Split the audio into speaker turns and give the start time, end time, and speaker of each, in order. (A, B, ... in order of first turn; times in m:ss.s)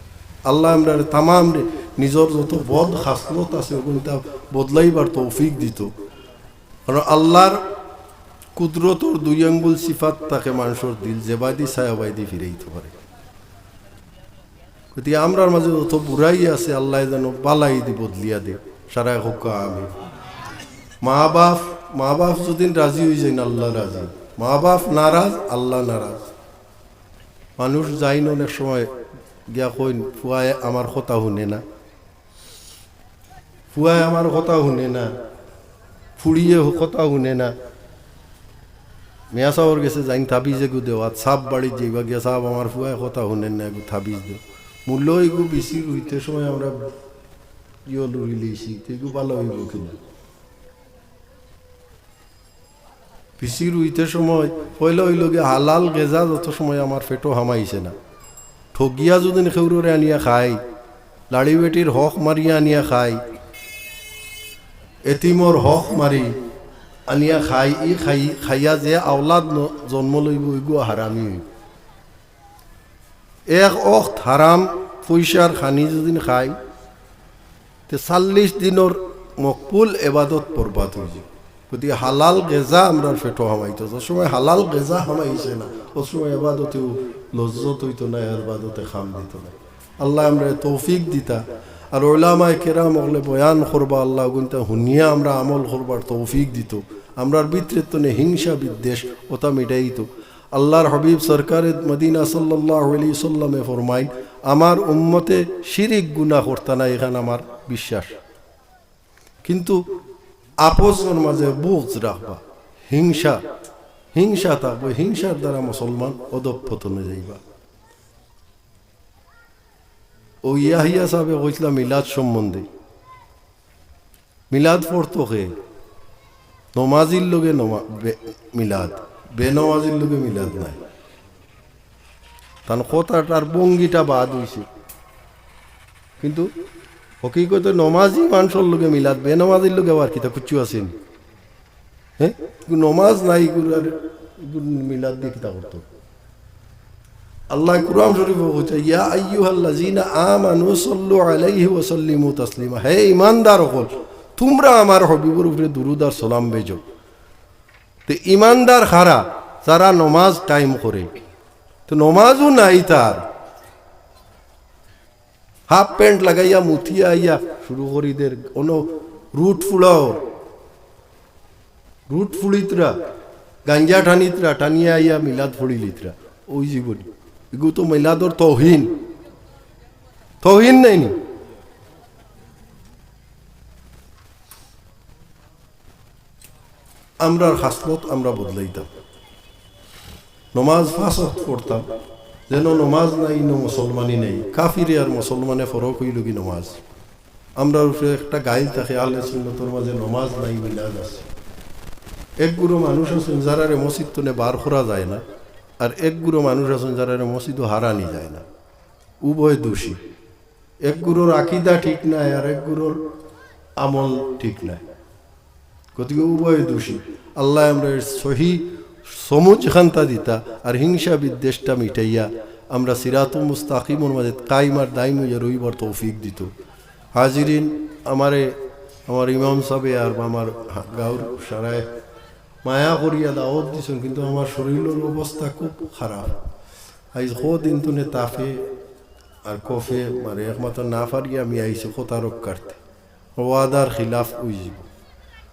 0:00.5-0:05.9 A
0:06.9-0:07.6 A
0:08.6-0:12.9 A
0:15.0-0:19.9 A
0:21.0-0:26.2 A
0:27.6-0:28.9 A
0:29.5-0:31.6 A
0:33.7-0:35.1 A
0:36.2-0:37.5 A
0:39.3-0:46.8 A
0:47.9-0:50.0 A
0:53.4-0:58.0 A
0:58.7-1:00.6 A
1:01.3-1:03.2 A
1:05.0-1:06.4 A
1:07.1-1:11.4 A
1:13.5-1:16.6 A
1:17.9-1:48.2 A
1:49.4-1:49.8 A
1:50.6-1:53.4 A
1:54.1-1:57.4 A
2:00.4-2:02.6 A
2:04.5-2:05.5 A
2:06.8-2:10.8 A
2:12.7-2:14.7 A
2:16.2-2:16.5 A
2:17.2-2:20.9 A
2:22.2-2:25.9 A
2:27.5-2:36.8 A
2:38.1-2:41.1 A
2:41.9-2:43.2 A
2:45.7-2:50.2 A
2:52.1-2:53.0 A
2:53.6-2:58.9 A
3:00.4-3:01.1 A
3:07.2-3:08.9 A
3:10.5-3:11.9 A
3:12.5-3:16.8 A
3:17.6-3:21.3 A
3:22.4-3:25.2 A
3:25.8-3:28.4 A
3:29.2-3:30.0 A
3:30.8-3:33.0 A
3:33.8-3:34.8 A
3:35.9-3:46.5 A
3:47.1-3:51.9 A
3:52.6-3:56.4 A
3:57.1-3:58.7 A
3:59.4-4:02.8 A
4:03.4-4:04.9 A